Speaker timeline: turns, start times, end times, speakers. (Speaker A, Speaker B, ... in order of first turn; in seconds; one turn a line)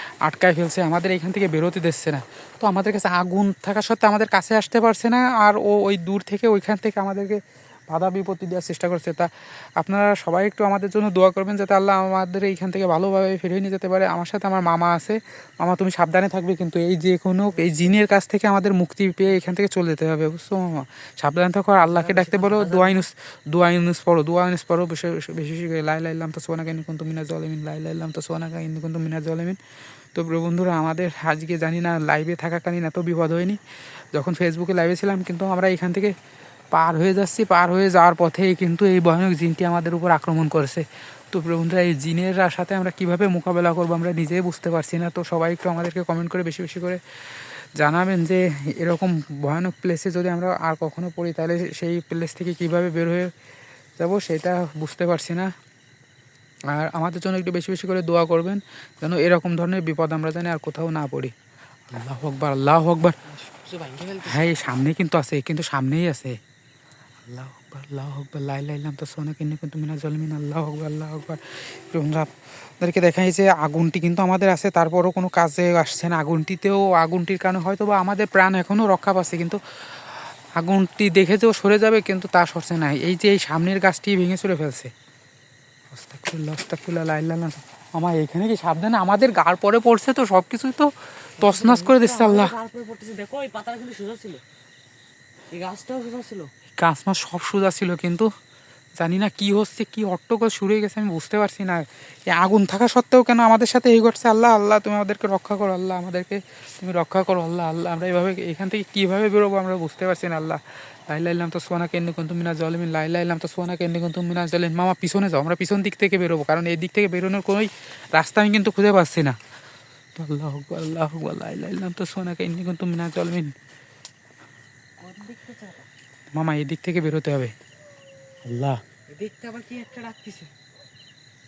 Speaker A: 0.2-29.6
Speaker B: 17.5-17.9
Speaker B: 21.8-23.1
Speaker A: 30.1-33.6
Speaker A: 34.1-36.1
Speaker A: 36.7-53.3
Speaker A: 54.0-55.5
Speaker A: 56.7-61.3
Speaker A: 61.9-63.1
Speaker B: 63.3-64.6
Speaker A: 64.2-66.4
Speaker A: 67.2-80.0
Speaker A: 80.6-84.9
Speaker A: 85.9-92.5
Speaker B: 91.4-94.4
Speaker B: 95.5-96.5
Speaker A: 96.8-98.3
Speaker A: 99.0-119.4
Speaker A: 120.2-123.5
Speaker B: 125.0-125.9
Speaker A: 126.3-127.5
Speaker A: 128.5-128.8
Speaker B: 129.1-130.5